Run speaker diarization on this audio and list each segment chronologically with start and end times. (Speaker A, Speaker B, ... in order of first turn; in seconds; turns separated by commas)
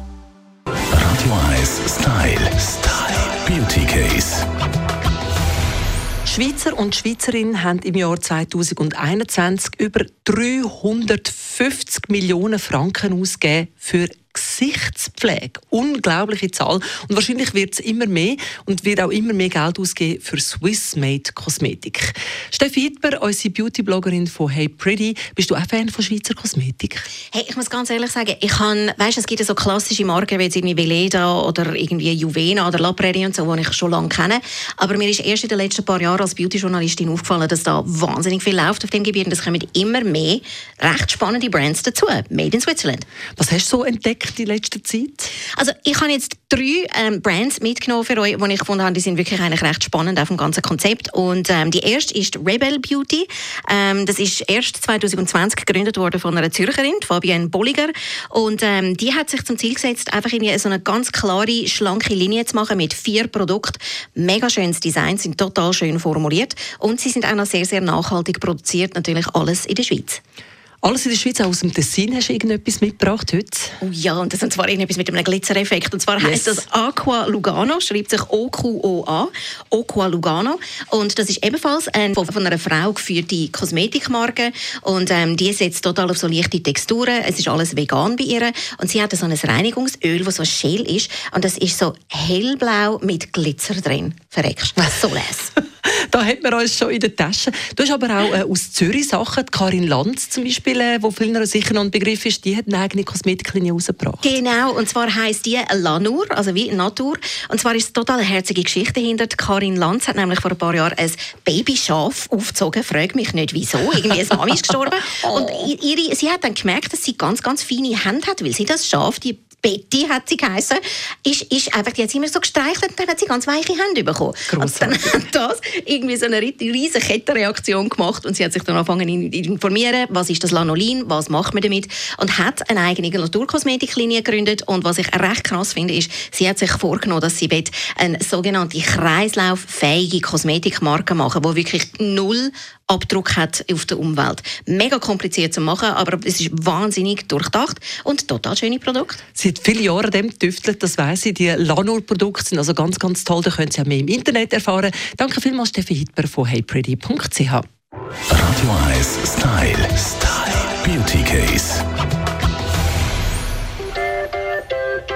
Speaker A: 0.9-4.5, Speaker B: 6.2-27.1, Speaker C: 27.3-43.0, Speaker B: 43.4-45.3, Speaker C: 45.5-70.2, Speaker B: 70.8-73.7, Speaker C: 73.8-95.5, Speaker B: 76.2-76.6, Speaker B: 95.8-104.4, Speaker C: 104.2-149.2, Speaker B: 115.2-115.6, Speaker B: 124.5-125.0, Speaker B: 149.3-157.7, Speaker A: 158.3-161.8